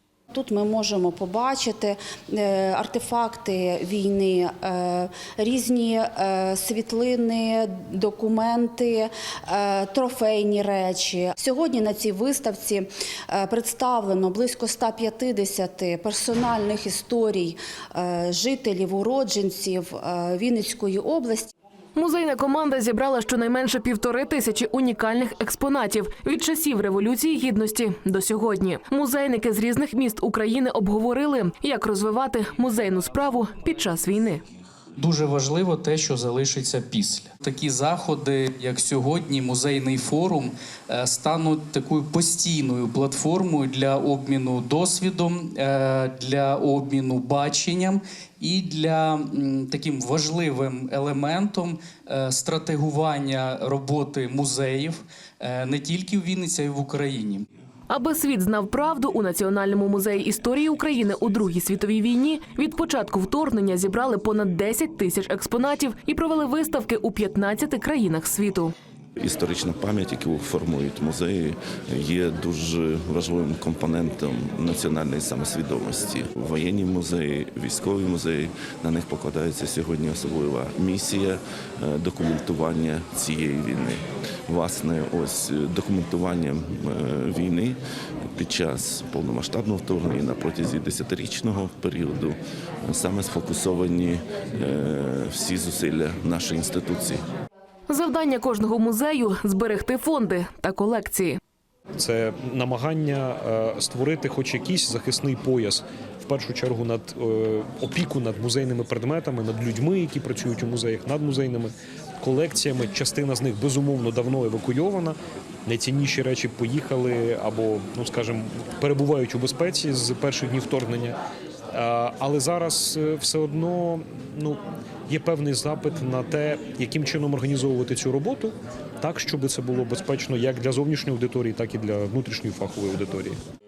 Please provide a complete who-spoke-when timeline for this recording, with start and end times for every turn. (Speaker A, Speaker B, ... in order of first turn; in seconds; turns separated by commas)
Speaker A: 0.3-21.5, Speaker B: 21.9-34.4, Speaker C: 35.0-57.5, Speaker B: 57.9-68.7, Speaker D: 69.2-87.8, Speaker D: 88.3-97.2, Speaker B: 97.9-101.4, Speaker E: 102.0-121.2, Speaker E: 121.7-133.4